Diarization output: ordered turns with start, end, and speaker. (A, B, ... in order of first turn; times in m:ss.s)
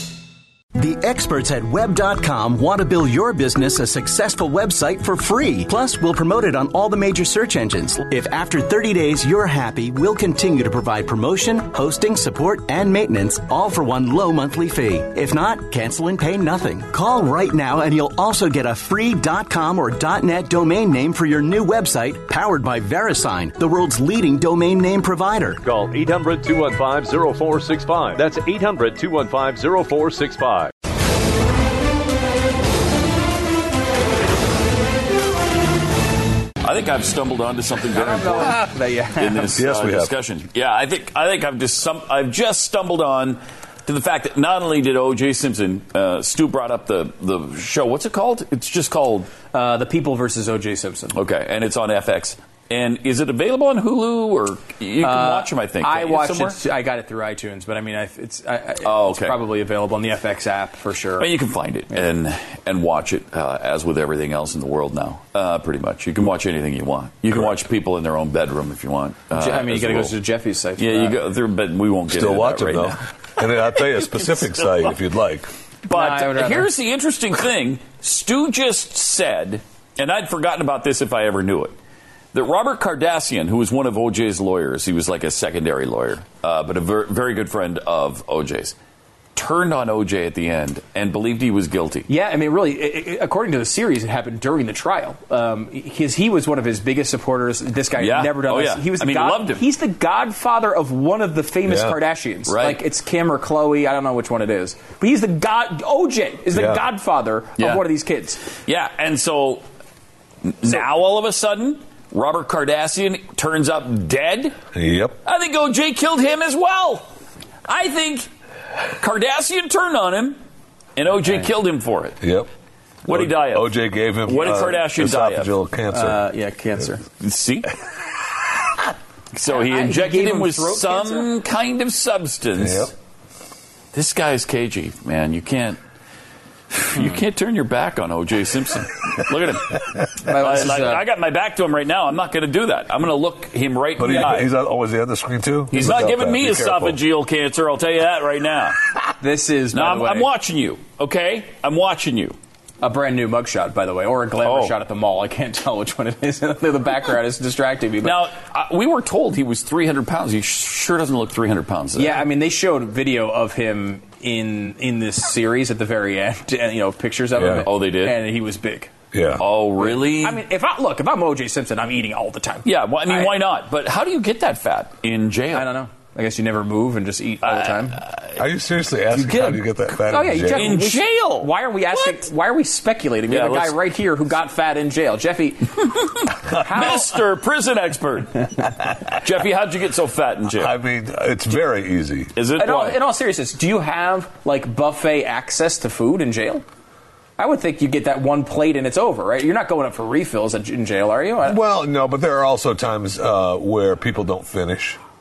0:00.8-0:25.6 A
0:25.6-0:30.7 B
0:36.6-0:49.3 C
0:37.9-0:39.6 D
0:39.6-0:40.1 E
0:49.5-0:51.2 D
0:51.1-0:56.6 C
0:55.0-1:01.3 D
0:58.8-0:59.3 C
1:01.2-1:10.2 C
1:09.3-1:11.2 D
1:10.8-1:13.0 C
1:12.1-1:15.5 E
1:15.8-1:21.7 C
1:15.9-1:16.7 D
1:22.3-1:28.7 C
1:29.3-1:32.1 C
1:32.1-1:48.5 D
1:38.0-1:39.6 C
1:41.6-1:42.0 E
1:42.5-1:42.8 C
1:46.5-1:46.8 E
1:47.6-1:47.8 C
1:48.6-1:49.6 C
1:50.4-1:54.5 C
1:54.7-1:55.2 E
1:55.2-1:57.1 C
1:57.6-1:58.3 C
1:59.0-2:00.4 C
2:01.0-2:02.2 C
2:02.2-2:02.5 E
2:03.0-2:05.5 C
2:03.1-2:06.2 E
2:05.9-2:07.0 D
2:07.2-2:07.7 C
2:09.3-2:12.9 C
2:09.4-2:11.3 D
2:12.6-2:12.9 E
2:13.9-2:15.8 C
2:16.7-2:24.5 C
2:20.2-2:21.0 D
2:24.0-2:27.0 E
2:25.7-2:28.8 C
2:29.2-2:30.3 D
2:29.7-2:32.4 C
2:32.8-2:38.2 D
2:34.4-2:34.7 C
2:38.0-2:42.2 C
2:41.9-2:48.9 D
2:47.4-2:47.6 E
2:47.4-2:48.2 C
2:49.1-2:49.4 E
2:49.4-2:50.4 C
2:49.8-2:53.3 D
2:52.6-2:55.7 C
2:55.5-2:58.0 D
2:57.4-2:58.4 C
2:58.4-3:00.8 E
2:59.1-3:05.9 D
3:00.5-3:02.2 C
3:03.3-3:03.8 C
3:06.4-3:07.1 D
3:06.5-3:10.7 C
3:10.6-3:12.3 E
3:12.3-3:13.0 C
3:12.6-3:16.6 D
3:17.4-3:21.6 D
3:21.4-3:25.0 E